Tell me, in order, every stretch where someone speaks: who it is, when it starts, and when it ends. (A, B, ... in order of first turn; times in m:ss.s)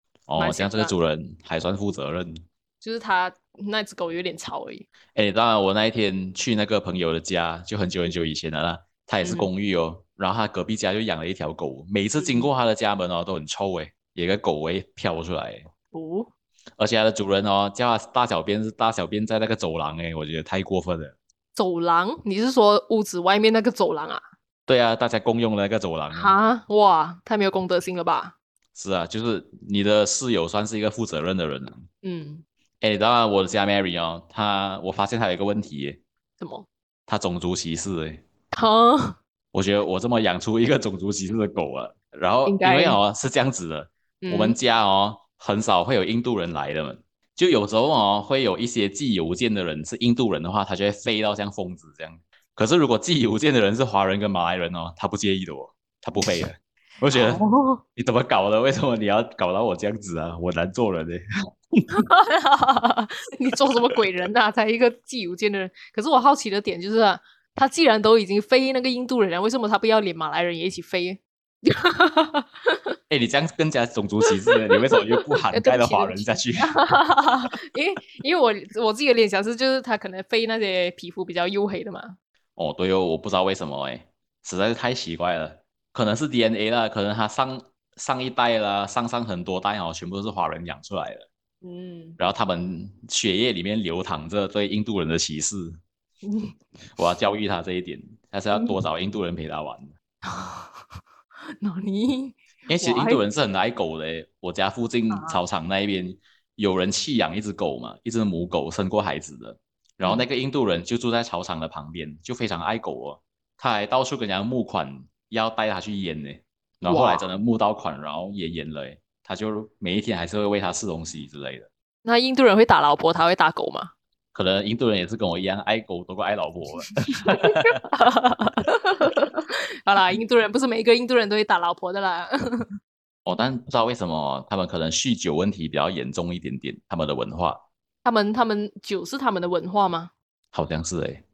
0:00.3-0:02.4 A
0:00.4-0:00.9 B
0:02.8-0:04.9 B
0:05.2-0:15.7 A
0:09.2-0:09.5 B
0:12.2-0:12.5 B
0:15.9-0:16.3 B
0:16.8-0:21.2 A
0:21.6-0:24.2 B
0:24.7-0:26.4 A
0:26.1-0:28.4 B
0:28.8-0:31.9 A
0:32.0-0:32.4 B
0:32.8-0:36.0 A
0:36.4-0:36.7 B
0:37.1-0:38.2 A
0:38.5-0:39.2 B
0:39.5-0:57.4 A
0:42.5-0:43.0 B
0:44.2-0:44.6 B
0:57.1-0:57.8 B
0:58.0-1:01.2 A
1:01.9-1:13.0 B
1:13.1-1:16.8 A
1:14.3-1:22.2 B
1:22.6-1:31.3 A
1:31.6-1:32.2 B
1:32.2-1:35.8 A
1:36.2-1:36.6 B
1:37.0-1:39.9 A
1:38.5-1:38.8 B
1:40.2-1:40.8 B
1:41.6-1:43.2 B
1:42.7-2:01.7 A
1:45.1-1:45.4 B
1:50.0-1:50.3 B
1:56.8-1:57.3 B
2:02.0-2:03.9 B
2:04.3-2:07.8 A
2:07.2-2:12.7 B
2:13.2-2:17.6 A
2:18.0-2:20.1 B
2:20.5-2:21.2 A